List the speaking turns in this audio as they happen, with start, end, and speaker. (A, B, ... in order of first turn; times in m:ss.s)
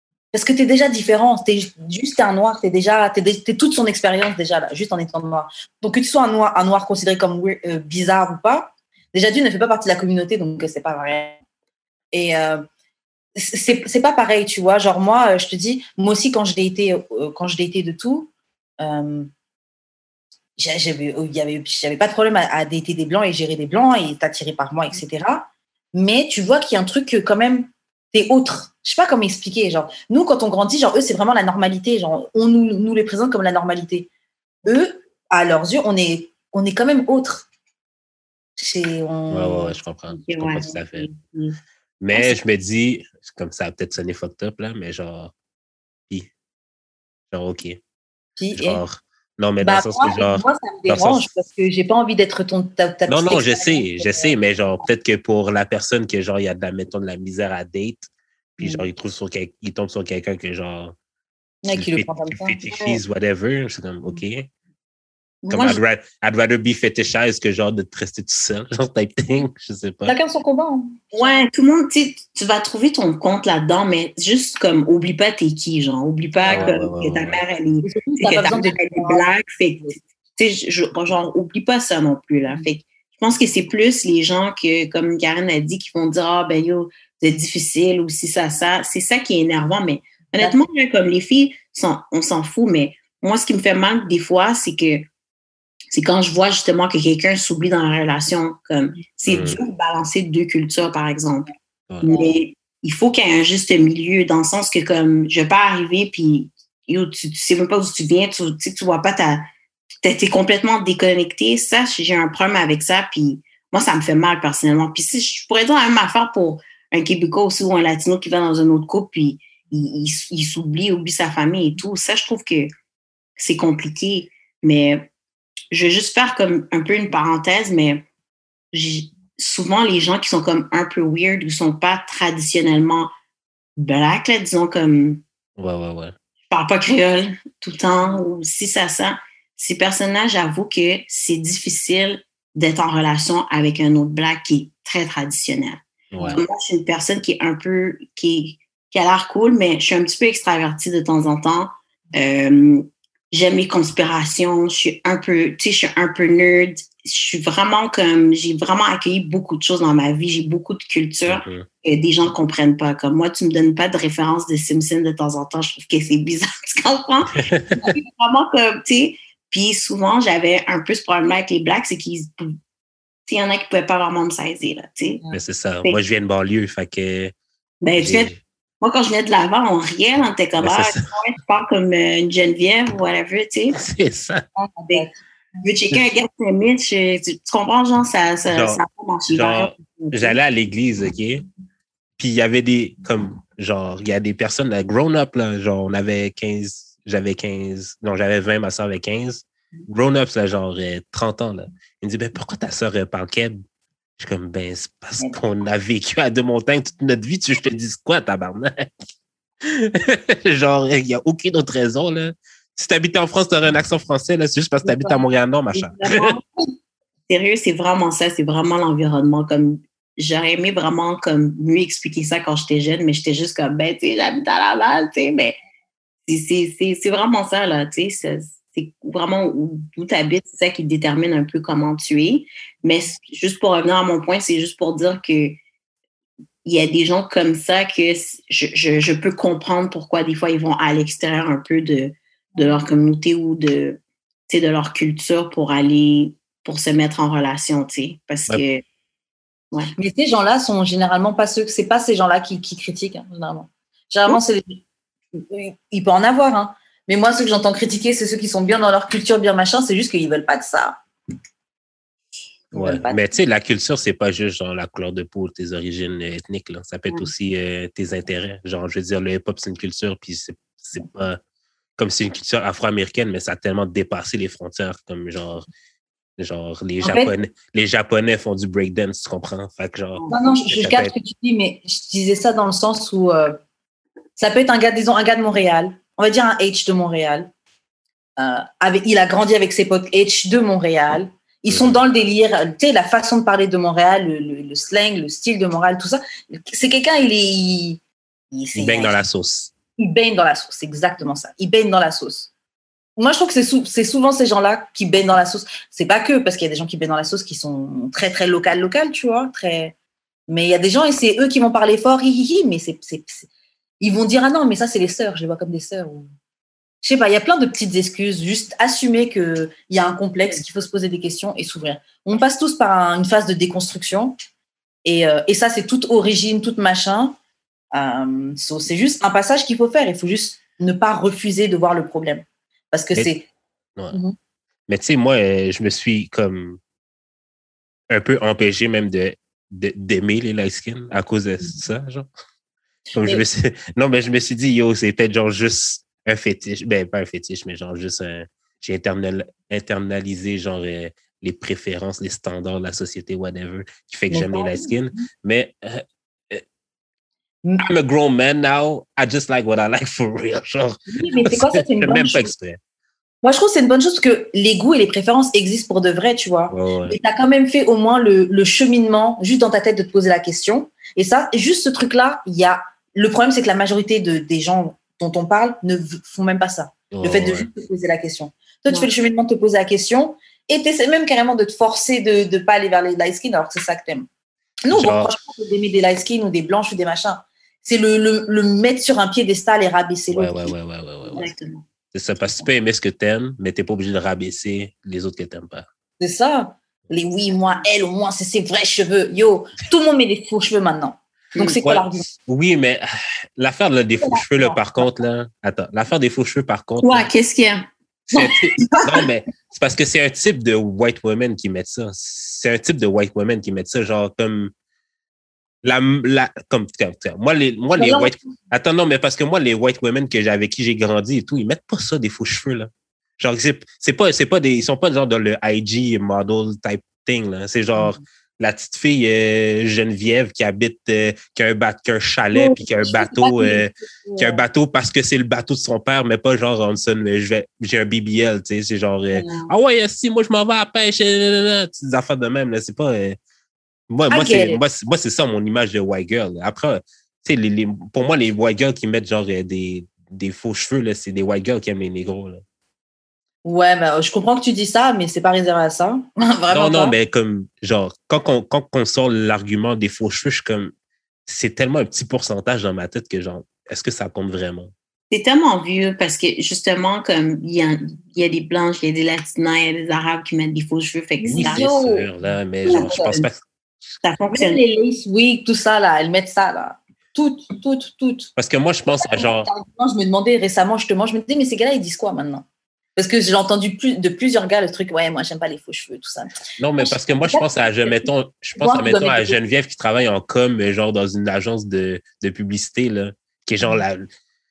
0:00.3-0:11.4 A
0:12.1-0:12.6 A
0:13.4-0:19.3 A
0:20.6-0:34.1 A
0:34.6-0:37.4 A
0:38.6-0:39.8 A
0:39.3-0:41.1 B
0:40.1-0:41.6 C
0:42.0-0:45.3 B
0:47.3-0:47.8 B
0:48.4-0:48.8 A
0:48.5-0:51.3 B
0:49.6-0:54.3 A
0:53.1-1:00.9 B
0:58.6-0:58.9 A
1:01.6-1:02.7 A
1:01.7-1:04.5 B
1:02.7-1:03.0 C
1:05.4-1:05.8 C
1:05.5-1:10.2 B
1:10.1-1:11.5 A
1:11.1-1:35.1 C
1:16.4-1:16.8 A
1:16.5-1:17.4 B
1:17.8-1:19.3 A
1:30.4-1:30.6 A
1:35.9-1:41.5 C
1:39.3-1:39.6 B
1:42.0-1:42.3 A
1:42.0-1:49.5 C
1:50.0-2:02.7 C
2:03.4-2:05.1 C
2:05.7-2:08.0 C
2:08.7-2:13.1 C
2:13.8-2:15.2 C
2:15.6-2:16.1 B
2:16.5-2:52.6 C
2:26.1-2:26.4 B
2:41.3-2:41.7 B
2:47.4-2:47.8 B
2:53.3-2:55.2 C
2:55.3-2:57.3 B
2:57.8-3:03.8 C
2:57.9-2:58.4 B
3:00.6-3:01.1 B
3:03.7-3:04.4 B
3:04.5-3:05.2 A
3:05.6-3:10.4 C
3:08.5-3:11.4 B
3:12.2-3:23.6 B
3:24.2-3:28.9 B
3:29.6-3:36.4 B
3:35.7-3:36.4 C
3:37.3-3:45.6 C
3:46.3-3:55.6 C
3:56.6-4:08.8 C
4:10.0-4:14.8 A
4:15.3-4:21.0 A
4:22.7-4:23.2 A
4:22.7-4:31.4 B
4:32.0-4:35.6 B
4:36.4-4:41.1 B
4:37.0-4:37.3 A
4:40.3-4:43.6 A
4:44.4-4:47.5 A
4:48.4-4:58.0 A
4:51.7-4:52.0 B
4:58.5-4:59.2 A
4:58.7-4:59.7 B
5:00.0-5:02.5 A
5:03.2-5:09.9 A
5:10.5-5:13.5 A
5:14.0-5:16.3 A
5:17.0-5:24.4 A
5:25.0-5:27.4 A
5:27.9-5:33.5 A
5:34.9-5:36.8 B
5:38.1-5:42.3 B
5:43.1-5:56.6 B
5:54.3-5:55.2 A
5:57.8-6:02.8 B
6:01.1-6:02.5 A
6:03.4-6:24.3 A
6:06.7-6:07.2 B
6:17.1-6:17.7 B
6:24.8-6:30.7 A
6:24.9-6:25.4 B
6:30.3-6:31.5 B
6:31.3-6:31.8 C
6:32.1-6:35.8 B
6:36.2-6:42.2 A
6:41.5-6:41.8 C
6:41.8-6:43.0 B
6:43.6-6:47.3 B
6:44.2-6:44.8 A
6:47.0-6:49.2 C
6:48.3-6:54.7 B
6:55.8-7:23.4 B
6:57.9-6:58.4 A
7:12.5-7:14.6 A
7:19.4-7:19.7 C
7:24.1-7:32.6 B
7:24.3-7:24.8 A
7:33.6-7:37.1 A
7:36.7-7:40.9 B
7:41.4-7:44.9 B
7:45.3-7:51.9 C
7:51.4-7:52.3 A
7:51.5-7:53.6 B
7:52.8-7:53.3 A
7:52.9-7:53.5 C
7:54.2-7:54.8 C
7:54.5-7:58.5 A
7:58.6-7:59.7 B
7:59.2-8:02.6 A
8:03.2-8:08.2 A
8:06.8-8:14.3 B
8:08.8-8:09.6 A